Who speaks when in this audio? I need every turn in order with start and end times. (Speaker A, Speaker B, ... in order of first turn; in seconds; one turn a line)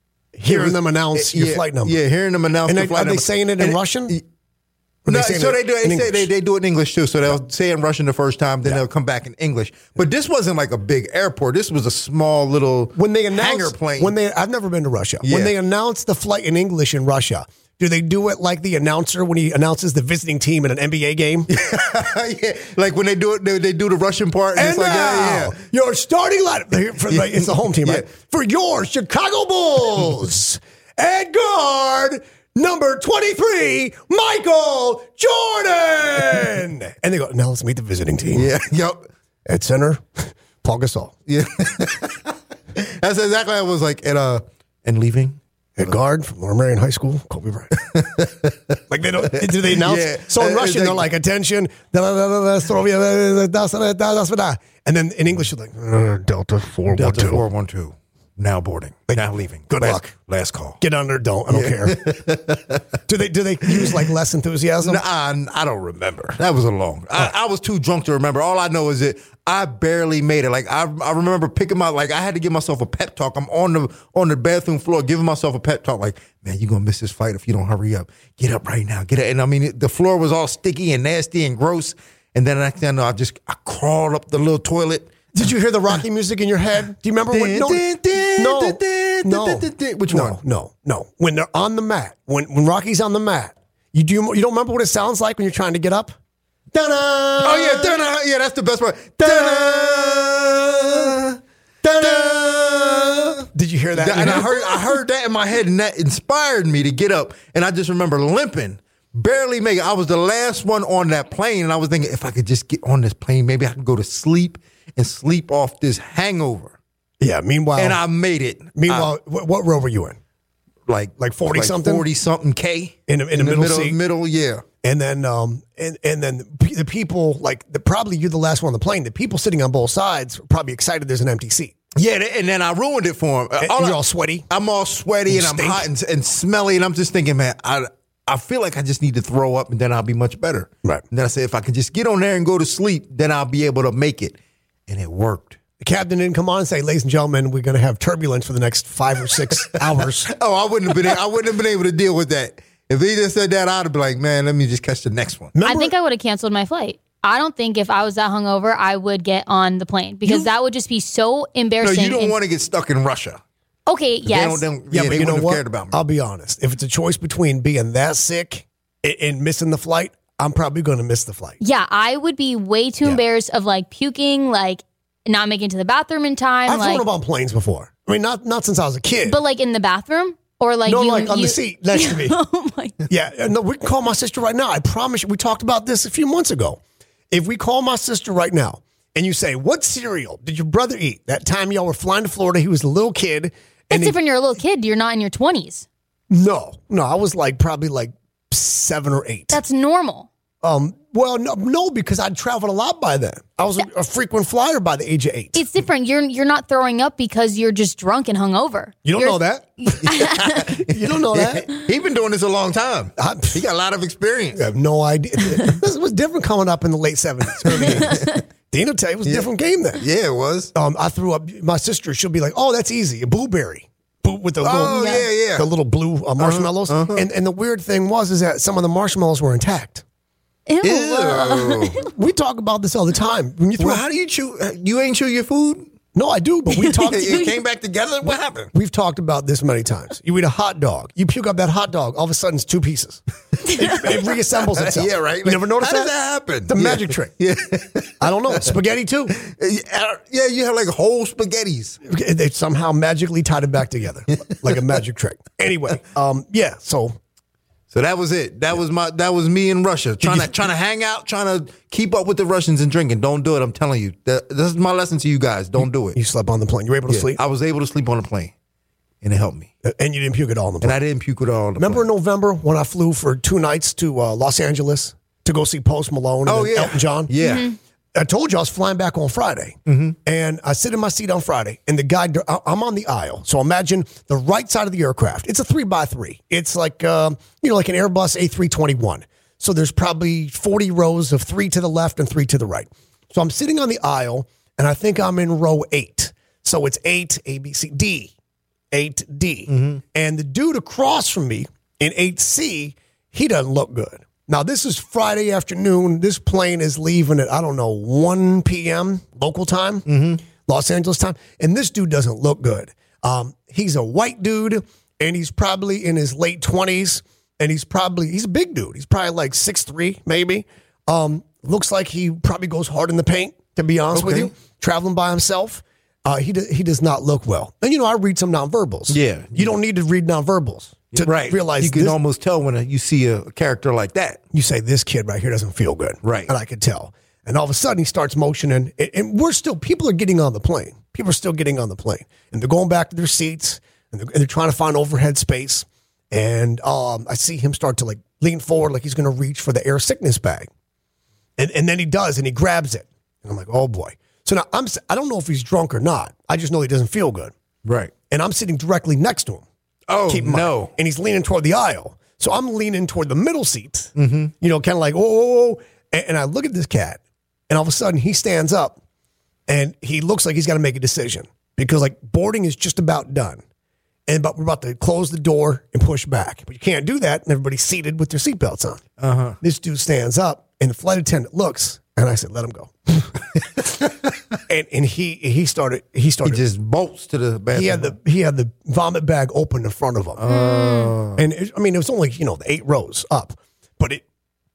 Speaker A: 0.3-2.0
Speaker B: 0.5-4.2
Speaker A: 2.6-4.2
Speaker A: 5.0-6.3
Speaker B: 5.1-14.1
Speaker A: 12.9-21.5
Speaker B: 15.2-15.5
Speaker B: 21.5-25.5
Speaker A: 24.6-38.5
Speaker B: 27.1-28.1
Speaker B: 38.3-39.1
Speaker A: 39.5-41.1
Speaker B: 41.3-45.4
Speaker A: 45.8-47.8
Speaker B: 47.8-48.8
Speaker A: 48.9-57.4
Speaker B: 49.3-51.1
Speaker B: 56.9-60.8
Speaker A: 59.1-60.1
Speaker A: 60.8-62.1
Speaker B: 61.5-62.8
Speaker A: 63.1-65.0
Speaker B: 63.7-64.0
Speaker B: 64.8-85.1
Speaker A: 85.3-96.1
Speaker B: 87.3-90.4
Speaker A: 96.7-98.0
Speaker B: 97.4-101.4
Speaker A: 99.2-100.0
Speaker A: 101.8-104.8
Speaker B: 102.0-116.8
Speaker A: 117.2-118.0
Speaker B: 117.8-119.1
Speaker A: 118.7-120.2
Speaker B: 120.9-124.6
Speaker A: 121.2-122.0
Speaker A: 123.1-124.0
Speaker A: 124.8-131.8
Speaker B: 131.9-134.0
Speaker A: 133.6-134.5
Speaker B: 134.5-144.3
Speaker A: 135.3-135.9
Speaker B: 144.9-145.6
Speaker A: 145.8-150.3
Speaker B: 149.7-155.5
Speaker A: 155.5-155.9
Speaker C: 155.6-162.3
Speaker B: 161.8-163.4
Speaker C: 163.9-164.6
Speaker B: 164.2-166.0
Speaker A: 164.9-171.6
Speaker C: 171.6-177.0
Speaker A: 176.7-179.4
Speaker C: 179.2-182.9
Speaker A: 180.8-182.4
Speaker A: 183.1-194.2
Speaker C: 193.9-195.9
Speaker A: 196.3-199.6
Speaker C: 199.5-200.3
Speaker A: 200.6-205.6
Speaker C: 205.5-210.6
Speaker A: 209.0-209.7
Speaker B: 210.0-214.7
Speaker A: 210.8-211.7
Speaker A: 213.2-213.6
Speaker A: 214.5-220.0
Speaker B: 217.6-218.3
Speaker B: 219.2-220.7
Speaker A: 220.7-230.0
Speaker B: 224.6-225.7
Speaker C: 225.0-225.2
Speaker B: 226.4-227.2
Speaker C: 230.7-232.1
Speaker B: 230.8-232.0
Speaker A: 232.1-234.0
Speaker B: 233.8-235.9
Speaker A: 236.1-237.4
Speaker C: 236.7-237.5
Speaker B: 237.1-238.7
Speaker A: 238.7-243.2
Speaker C: 243.7-244.0
Speaker A: 243.7-246.1
Speaker B: 244.6-248.6
Speaker A: 246.7-247.3
Speaker A: 248.2-249.3
Speaker B: 249.3-252.0
Speaker A: 252.0-257.2
Speaker B: 254.3-254.7
Speaker B: 257.9-266.1
Speaker A: 260.2-260.5
Speaker A: 265.8-267.4
Speaker B: 267.1-268.5
Speaker B: 269.2-269.7
Speaker A: 269.8-271.0
Speaker B: 270.8-272.0
Speaker A: 271.8-277.3
Speaker B: 276.4-277.7
Speaker C: 277.4-277.7
Speaker A: 278.1-298.3
Speaker B: 279.9-280.1
Speaker A: 298.9-332.2
Speaker B: 299.7-300.0
Speaker B: 310.1-310.4
Speaker B: 324.1-324.5
Speaker B: 329.1-329.7
Speaker B: 331.1-334.4
Speaker A: 334.5-350.7
Speaker B: 336.2-336.5
Speaker A: 351.6-357.5
Speaker B: 357.8-358.1
Speaker A: 358.3-359.6
Speaker B: 360.1-360.9
Speaker A: 360.2-369.0
Speaker B: 364.1-364.5
Speaker A: 369.7-373.6
Speaker A: 374.3-379.0
Speaker B: 379.2-379.6
Speaker A: 379.6-383.4
Speaker A: 384.7-386.6
Speaker B: 386.4-388.1
Speaker A: 387.7-390.4
Speaker B: 390.4-391.4
Speaker C: 390.4-391.1
Speaker A: 391.4-394.2